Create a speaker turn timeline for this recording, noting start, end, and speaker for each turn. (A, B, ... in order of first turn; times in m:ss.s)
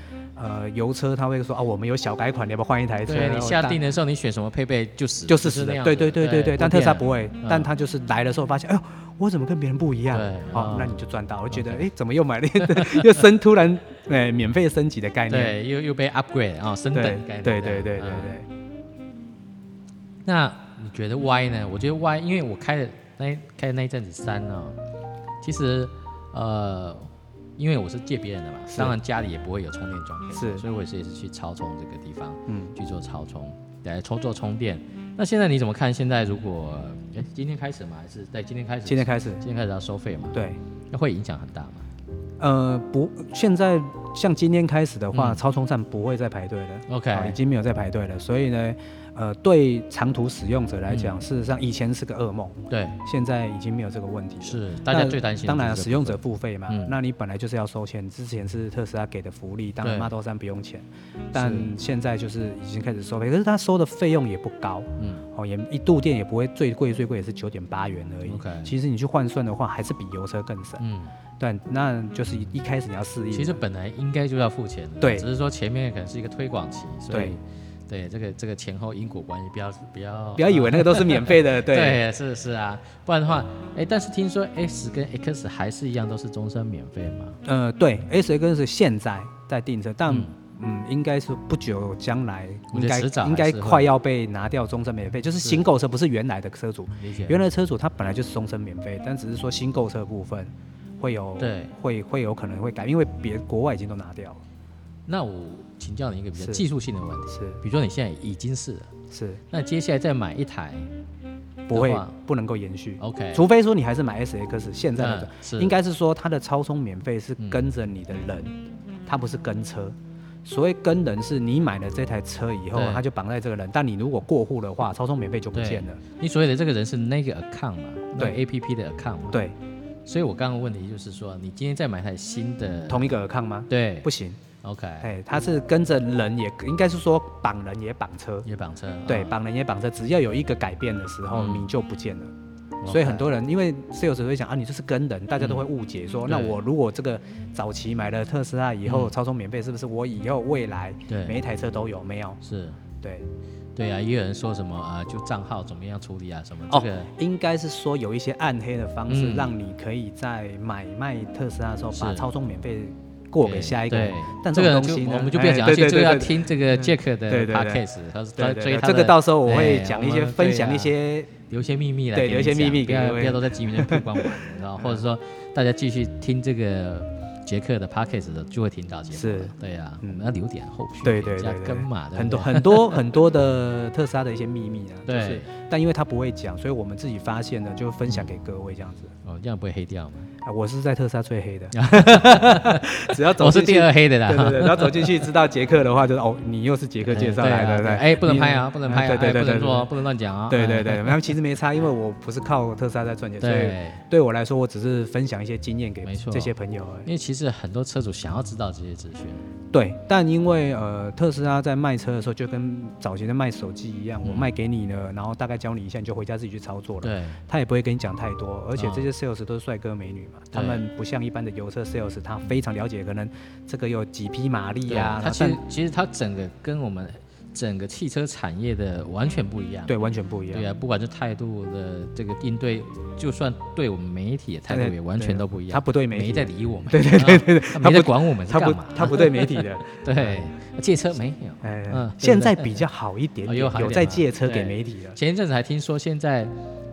0:00.3-0:03.8 A
0:03.0-0:07.7 B
0:05.3-0:15.6 A
0:10.1-0:11.9 B
0:12.6-0:13.1 B
0:15.3-0:18.4 B
0:16.9-0:18.5 A
0:20.2-0:24.8 B
0:25.4-0:41.8 B
0:28.7-0:29.0 A
0:30.3-0:30.6 A
0:32.5-0:32.7 A
0:38.8-0:39.4 A
0:40.3-0:40.6 A
0:42.4-1:10.8 A
0:45.1-0:45.4 B
0:46.9-0:47.4 B
0:50.9-0:51.2 B
0:52.7-0:53.0 B
0:54.4-0:56.9 B
0:59.8-1:00.1 B
1:01.3-1:01.7 B
1:05.0-1:05.2 B
1:08.2-1:08.7 B
1:10.8-1:11.1 B
1:11.4-1:13.6 A
1:13.3-1:27.4 B
1:15.0-1:15.3 A
1:17.1-1:17.4 A
1:20.4-1:22.0 A
1:27.4-1:44.4 A
1:30.1-1:30.3 B
1:32.7-1:33.9 B
1:37.0-1:37.4 B
1:41.4-1:41.7 B
1:45.1-1:48.9 B
1:46.4-1:46.6 A
1:47.3-1:47.6 A
1:49.1-1:49.4 A
1:49.5-1:50.9 B
1:51.7-2:06.0 A
1:51.7-1:52.1 B
1:53.0-1:53.4 B
1:55.0-1:55.8 B
1:57.4-1:57.6 B
2:02.7-2:03.0 B
2:05.5-2:09.4 B
2:09.3-2:09.6 A
2:10.0-2:13.2 B
2:12.9-2:14.4 A
2:13.7-2:14.1 B
2:14.6-2:15.1 B
2:15.0-2:18.4 A
2:18.4-2:19.3 B
2:19.0-2:22.3 A
2:21.3-2:21.7 B
2:22.8-2:23.3 B
2:22.8-2:32.4 A
2:25.4-2:25.6 B
2:26.3-2:26.6 B
2:28.8-2:29.1 B
2:31.1-2:31.4 B
2:32.4-2:32.8 B
2:33.0-2:33.3 A
2:33.8-2:37.1 B
2:36.7-2:47.8 A
2:39.1-2:39.5 B
2:41.9-2:42.3 B
2:43.4-2:50.9 B
2:48.4-2:51.3 A
2:51.5-3:03.0 B
2:52.1-2:55.0 A
2:59.1-3:00.2 A
3:01.0-3:09.1 A
3:05.0-3:05.5 B
3:09.2-3:10.3 B
3:10.4-3:19.9 A
3:11.7-3:15.3 B
3:17.0-3:21.2 B
3:20.5-3:27.1 A
3:23.4-3:24.0 B
3:26.0-3:26.5 B
3:27.0-3:29.4 B
3:29.7-3:45.6 A
3:34.2-3:34.5 B
3:37.0-3:37.4 B
3:38.7-3:39.1 B
3:40.5-3:40.8 B
3:44.9-3:50.0 B
3:49.9-3:50.7 A
3:50.5-4:02.8 B
3:54.7-4:00.4 A
4:01.6-4:05.2 A
4:03.4-4:06.5 B